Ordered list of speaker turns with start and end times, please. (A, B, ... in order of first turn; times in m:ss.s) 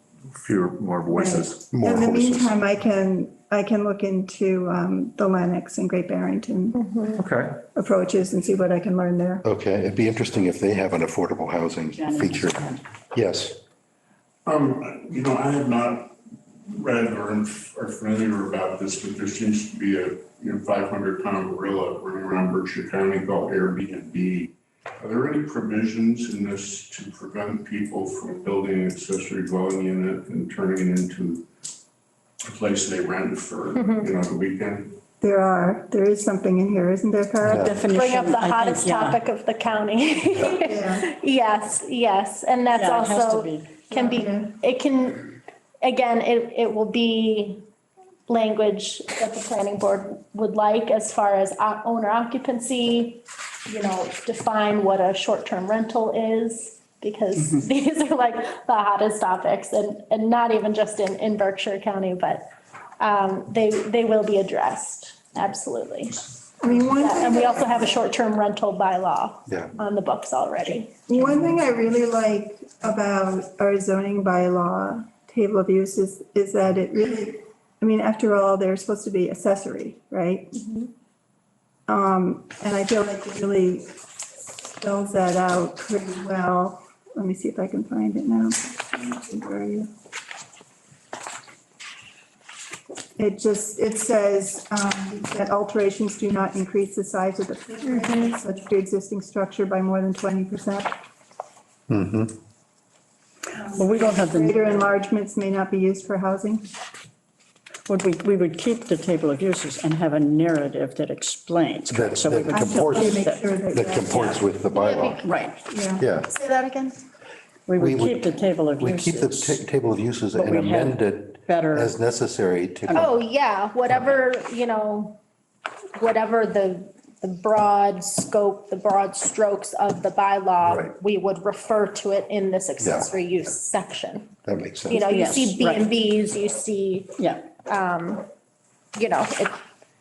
0:00.3-0:01.9 A
0:01.1-0:06.8 B
0:01.7-0:02.5 C
0:06.7-0:07.2 D
0:07.1-0:07.6 A
0:07.7-0:09.4 B
0:09.4-0:13.6 C
0:11.9-0:12.8 E
0:14.4-0:31.4 F
0:32.4-0:35.0 F
0:35.2-0:37.8 B
0:37.4-0:37.8 C
0:37.4-0:39.2 E
0:37.9-0:47.6 D
0:40.6-0:41.0 B
0:42.7-0:43.8 E
0:43.9-0:44.5 B
0:48.3-1:06.3 D
1:06.6-1:07.9 B
1:07.0-1:10.9 D
1:11.1-1:20.6 B
1:20.5-1:20.9 D
1:21.9-1:29.9 B
1:33.2-1:40.9 B
1:37.8-1:38.3 D
1:41.9-1:42.3 C
1:43.5-1:46.6 B
1:43.7-1:44.7 E
1:47.9-1:53.4 E
1:51.9-1:55.2 C
1:52.5-1:54.4 B
1:54.7-1:55.4 D
1:55.2-1:55.6 E
1:55.7-1:56.0 B
1:56.0-1:56.3 C
1:56.3-1:57.0 D
1:57.7-1:59.6 E
1:57.8-2:03.1 C
2:00.3-2:01.9 E
2:02.9-2:05.2 D
2:06.0-2:14.3 D
2:10.6-2:10.9 C
2:12.8-2:13.1 C
2:14.4-2:15.0 C
2:14.9-2:18.3 D
2:15.0-2:15.8 E
2:17.2-2:17.4 E
2:19.0-2:19.6 D